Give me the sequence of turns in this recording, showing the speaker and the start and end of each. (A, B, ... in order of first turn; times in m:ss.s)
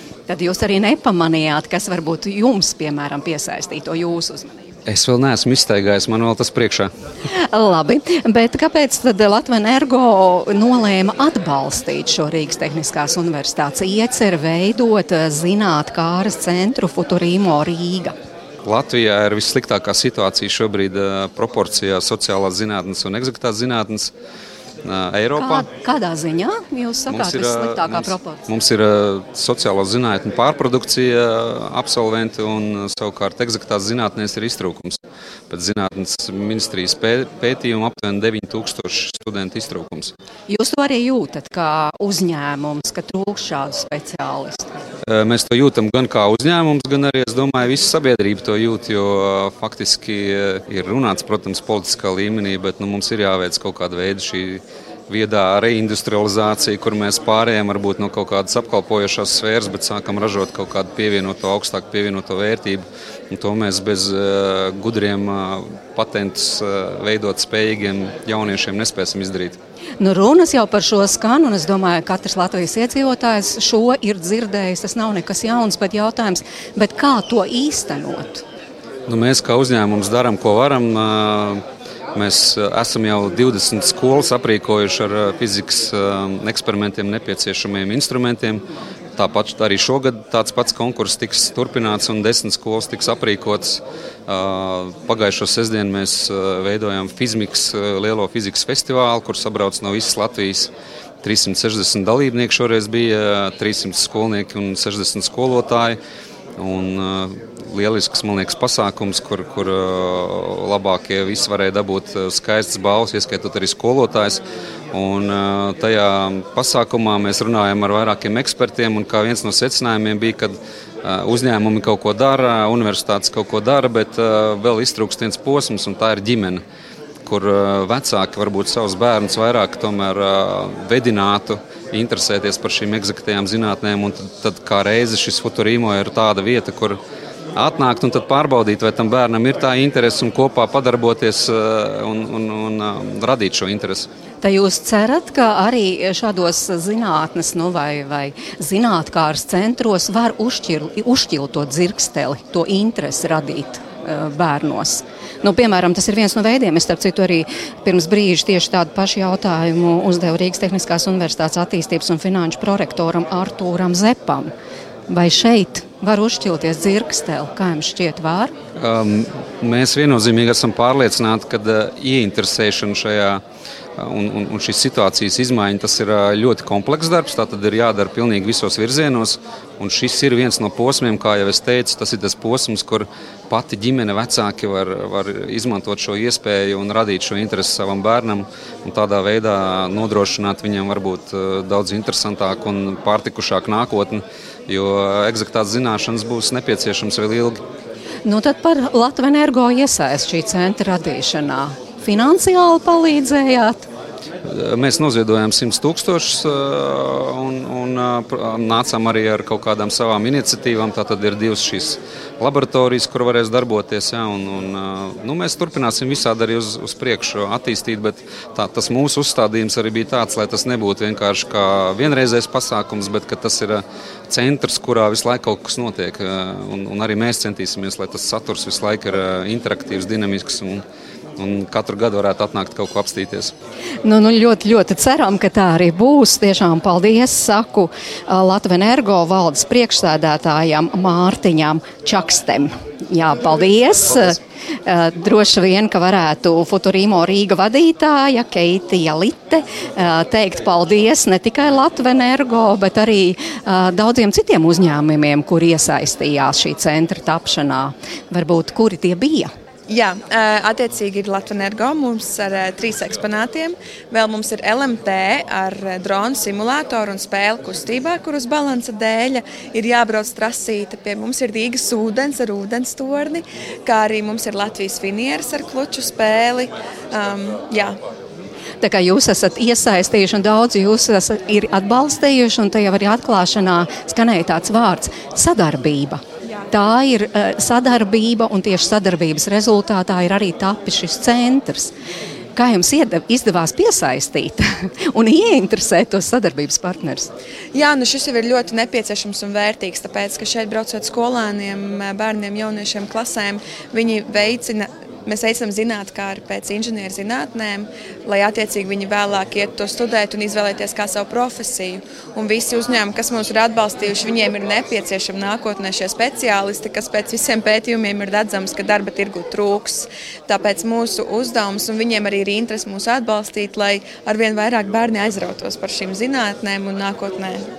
0:00.3-0:04.7 A
0:04.9-0:06.9 B
0:07.4-0:18.2 A
0:18.6-0:24.1 B
0:24.8-0:25.7 B
0:25.4-0:28.4 A
0:27.1-0:35.0 B
0:35.5-0:40.1 B
0:40.5-0:44.7 A
0:45.0-1:09.6 B
1:10.0-1:18.4 A
1:19.1-1:21.6 B
1:22.2-1:28.6 B
1:29.2-1:40.7 B
1:41.2-1:46.0 B
1:46.6-2:06.6 B
2:07.3-2:17.0 B
2:17.6-2:24.1 B
2:24.4-2:44.5 A
2:45.1-2:48.5 A
2:48.8-2:53.4 B
2:54.0-3:17.6 B
3:18.2-3:23.9 A
3:24.4-3:50.8 B
3:51.4-3:53.5 B
3:54.0-4:19.5 A
4:19.9-4:38.0 C
4:38.8-4:51.9 A
4:52.6-4:57.3 A
4:57.7-5:27.6 C